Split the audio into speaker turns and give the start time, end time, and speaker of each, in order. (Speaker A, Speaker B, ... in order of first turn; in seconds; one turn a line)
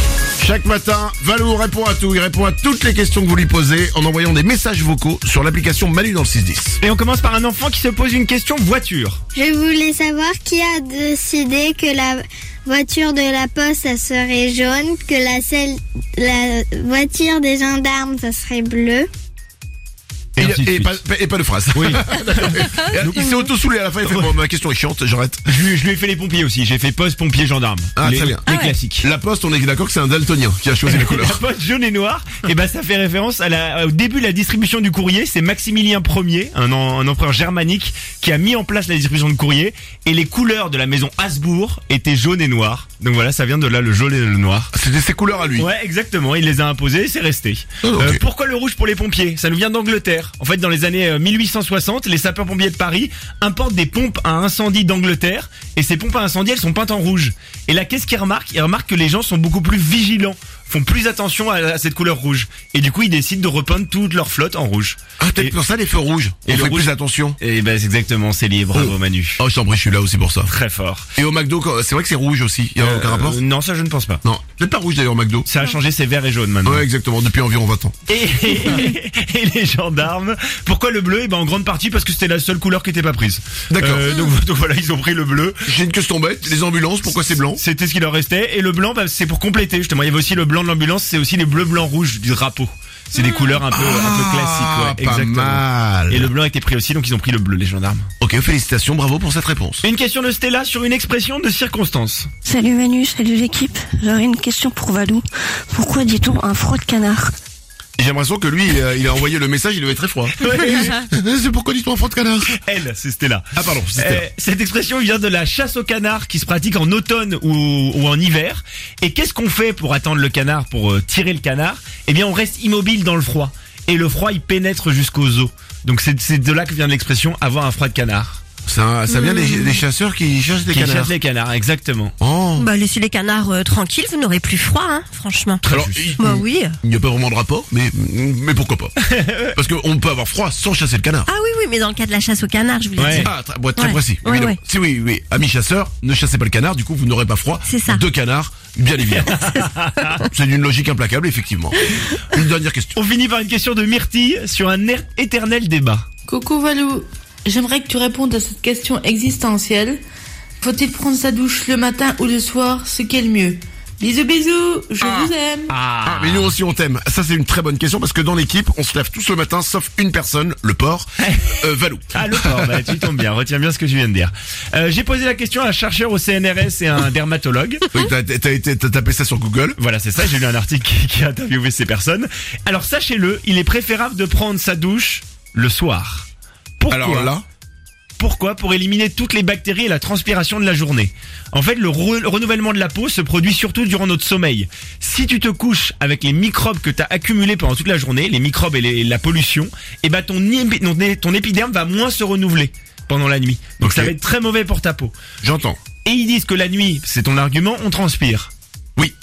Speaker A: 0.4-6.8
Speaker B: 6.8-9.2
Speaker C: 9.3-19.1
Speaker B: 20.4-21.0
Speaker A: 20.4-25.4
Speaker B: 21.7-23.2
Speaker B: 25.5-29.1
Speaker A: 27.9-28.4
Speaker D: 28.5-28.7
Speaker A: 29.0-31.4
Speaker B: 30.8-44.7
Speaker A: 44.7-45.7
Speaker B: 45.6-65.6
Speaker A: 47.8-48.2
Speaker A: 65.2-67.4
Speaker B: 66.5-69.4
Speaker A: 68.7-70.5
Speaker B: 70.5-71.1
Speaker A: 71.2-73.4
Speaker B: 72.8-74.2
Speaker A: 74.2-75.5
Speaker B: 75.5-76.8
Speaker A: 76.6-77.9
Speaker B: 78.1-85.6
Speaker A: 83.7-84.1
Speaker A: 85.7-87.6
Speaker B: 87.1-98.1
Speaker A: 93.1-96.3
Speaker A: 98.2-99.8
Speaker B: 99.8-102.3
Speaker E: 102.4-107.3
Speaker A: 108.0-112.5
Speaker B: 110.3-111.0
Speaker B: 112.5-128.4
Speaker A: 113.5-114.2
Speaker A: 128.7-131.1
Speaker D: 129.1-129.8
Speaker B: 130.7-132.1
Speaker A: 132.2-132.7
Speaker D: 132.6-135.6
Speaker B: 135.6-136.1
Speaker A: 135.6-138.9
Speaker D: 136.1-136.7
Speaker B: 139.0-139.6
Speaker A: 139.5-141.3
Speaker D: 141.3-144.6
Speaker B: 143.0-143.3
Speaker A: 143.1-149.3
Speaker D: 147.7-148.0
Speaker D: 149.3-150.2
Speaker B: 149.3-150.0
Speaker A: 150.2-152.9
Speaker B: 152.9-156.1
Speaker F: 156.3-160.0
Speaker F: 160.6-165.7
Speaker B: 165.7-166.5
Speaker A: 166.0-172.8
Speaker B: 171.2-177.9
Speaker A: 177.9-179.8
Speaker B: 179.8-186.3
Speaker B: 186.8-187.3
Speaker A: 186.9-187.4
Speaker B: 188.2-205.1
Speaker A: 203.8-204.1
Speaker A: 205.4-205.8
Speaker B: 206.0-208.5